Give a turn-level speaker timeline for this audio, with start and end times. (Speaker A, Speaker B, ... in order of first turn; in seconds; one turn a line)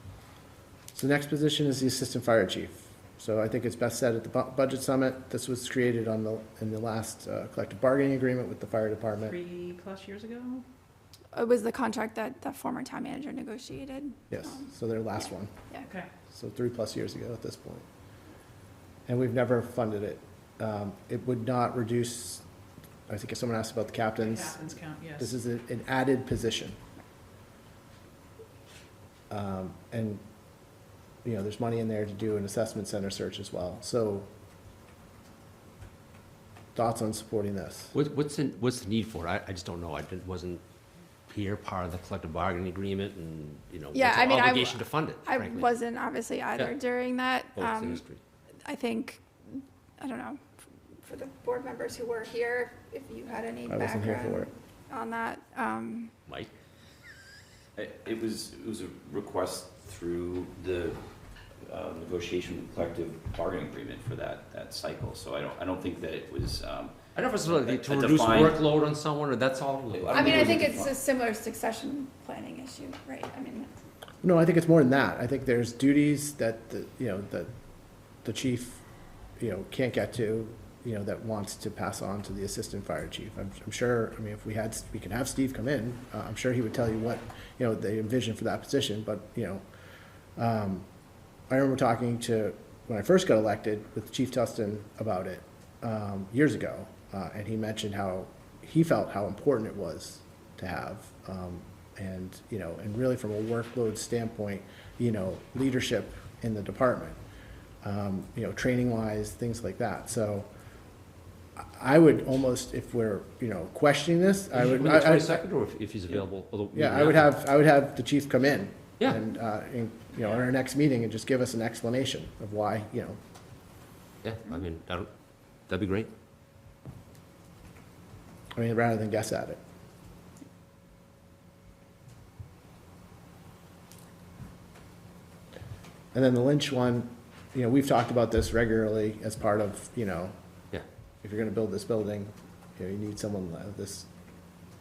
Speaker A: 0.9-9.4
Speaker B: 9.2-10.7
Speaker C: 11.3-14.7
Speaker A: 14.3-15.5
Speaker B: 15.8-16.1
Speaker A: 16.3-17.9
Speaker A: 19.1-22.4
Speaker A: 23.1-24.6
Speaker B: 24.3-25.3
Speaker A: 25.2-26.8
Speaker A: 29.3-30.2
Speaker A: 31.2-34.3
Speaker A: 36.8-37.9
Speaker D: 37.9-40.6
Speaker D: 41.3-45.8
Speaker C: 43.9-48.0
Speaker D: 47.5-48.2
Speaker C: 48.7-49.2
Speaker C: 50.0-50.4
Speaker C: 51.0-56.1
Speaker A: 53.7-54.5
Speaker D: 56.3-56.5
Speaker E: 57.8-61.0
Speaker E: 61.7-68.6
Speaker D: 67.2-70.7
Speaker E: 69.9-71.0
Speaker C: 70.1-73.7
Speaker A: 74.2-77.5
Speaker A: 78.2-78.8
Speaker A: 79.4-89.6
Speaker A: 90.4-90.9
Speaker A: 91.5-107.2
Speaker A: 107.8-110.5
Speaker A: 111.6-115.4
Speaker D: 114.5-117.3
Speaker A: 116.7-123.2
Speaker D: 124.2-125.1
Speaker D: 125.7-126.1
Speaker A: 128.6-129.6
Speaker A: 136.1-140.3
Speaker A: 141.2-144.1